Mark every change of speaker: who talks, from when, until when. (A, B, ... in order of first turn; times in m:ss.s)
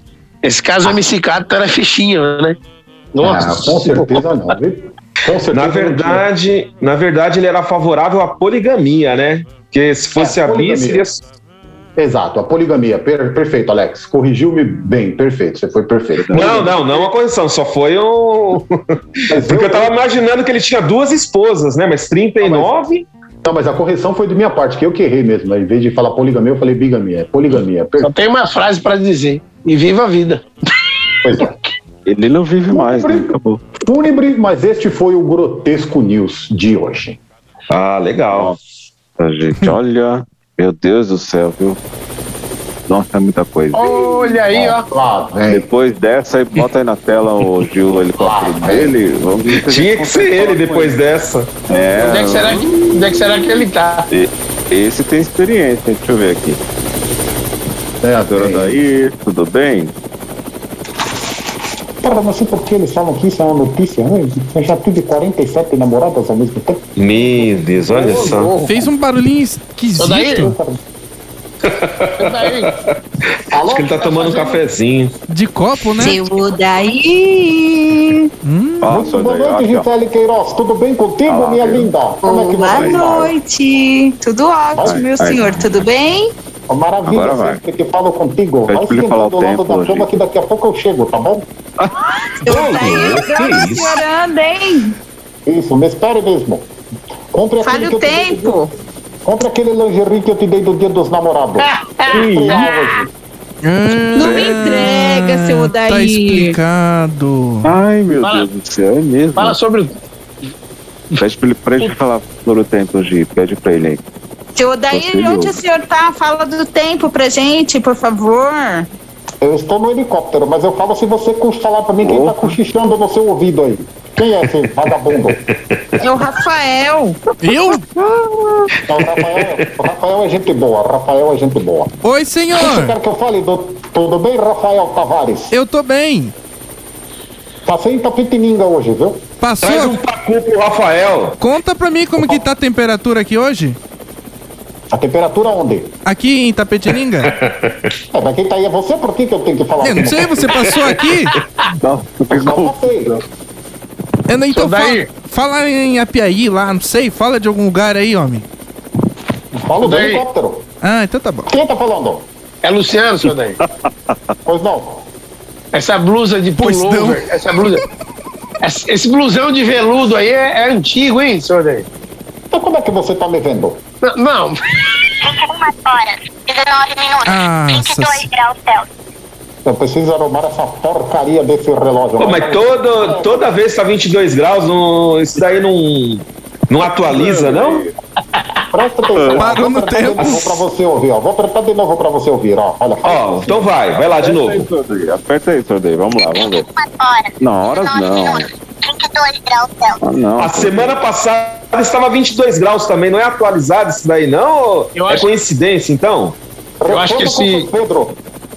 0:00.4-0:02.6 A
0:03.1-0:04.2 A
0:03.2-0:06.2 B
0:05.5-0:11.2 C
0:10.2-0:11.0 B
0:12.0-0:16.8 B
0:16.1-0:16.8 D
0:16.3-0:23.0 C
0:19.3-0:20.0 B
0:22.4-0:22.7 B
0:23.4-0:28.1 B
0:28.0-0:30.4 A
0:31.2-0:31.5 B
0:32.0-0:33.6 D
0:32.7-0:37.2 B
0:37.7-0:38.6 C
0:38.3-0:38.6 D
0:39.2-0:41.8 D
0:42.9-0:44.8 D
0:43.7-0:44.9 A
0:44.9-0:45.6 B
0:45.5-0:51.0 D
0:48.2-0:48.9 B
0:49.6-0:51.5 C
0:51.7-0:53.3 D
0:52.0-0:54.1 A
0:54.1-0:56.6 D
0:58.0-0:58.8 B
0:58.3-0:59.9 D
1:02.0-1:07.4 B
1:07.0-1:08.5 C
1:07.9-1:08.9 A
1:08.6-1:10.6 E
1:10.0-1:10.5 A
1:10.2-1:10.8 B
1:11.7-1:13.0 C
1:12.2-1:12.7 A
1:13.5-1:14.3 B
1:13.6-1:15.1 C
1:14.0-1:14.6 A
1:15.3-1:16.2 E
1:16.0-1:18.3 F
1:18.4-1:18.9 E
1:18.8-1:19.9 D
1:18.9-1:23.3 B
1:21.2-1:21.9 D
1:22.2-1:26.3 F
1:22.7-1:23.2 D
1:24.7-1:25.0 B
1:24.8-1:25.6 D
1:26.7-1:31.4 B
1:27.0-1:27.6 D
1:28.7-1:30.1 D
1:32.2-1:34.9 F
1:32.4-1:34.0 C
1:35.4-1:36.7 B
1:37.3-1:38.6 B
1:37.6-1:38.7 F
1:39.2-1:43.1 B
1:41.6-1:42.7 A
1:43.6-1:47.7 E
1:44.1-1:46.6 F
1:47.6-1:49.6 D
1:48.2-1:48.5 A
1:49.4-1:49.9 A
1:51.2-1:54.0 D
1:54.6-1:58.9 F
1:54.9-1:55.6 D
1:59.4-2:05.4 B
2:02.0-2:02.6 D
2:05.3-2:06.0 C
2:06.0-2:07.2 F
2:07.4-2:07.8 E
2:08.8-2:11.9 B
2:09.0-2:09.7 C
2:12.0-2:13.0 E
2:12.5-2:15.5 B
2:15.5-2:16.3 E
2:17.6-2:19.3 B
2:19.4-2:20.0 E
2:19.6-2:21.4 C
2:21.4-2:23.8 E
2:24.9-2:26.0 B
2:26.0-2:27.3 E
2:27.2-2:27.9 C
2:28.1-2:30.8 B
2:29.8-2:31.4 E
2:31.8-2:33.2 D
2:32.3-2:33.2 B
2:34.3-2:38.4 E
2:34.5-2:35.1 A
2:39.5-2:40.7 B
2:39.8-2:40.2 A
2:40.8-2:41.5 E
2:41.5-2:42.3 B
2:42.6-2:43.6 A
2:43.8-2:44.1 D
2:44.4-2:45.1 B
2:45.7-2:47.8 A
2:46.6-2:47.2 E
2:48.6-2:51.9 A
2:52.5-2:53.8 B
2:54.0-2:54.6 A
2:55.2-2:58.8 G
2:57.2-2:58.3 E
2:59.6-3:03.5 B
3:02.2-3:07.9 C
3:07.1-3:07.9 D
3:08.7-3:13.8 B
3:09.1-3:09.5 D
3:09.3-3:10.6 E
3:10.2-3:10.4 C
3:13.0-3:14.7 C
3:14.0-3:16.6 D
3:16.4-3:20.0 G
3:17.4-3:18.5 D
3:20.0-3:21.0 D
3:20.4-3:26.4 C
3:24.9-3:25.3 A
3:26.8-3:28.2 B
3:26.9-3:27.7 A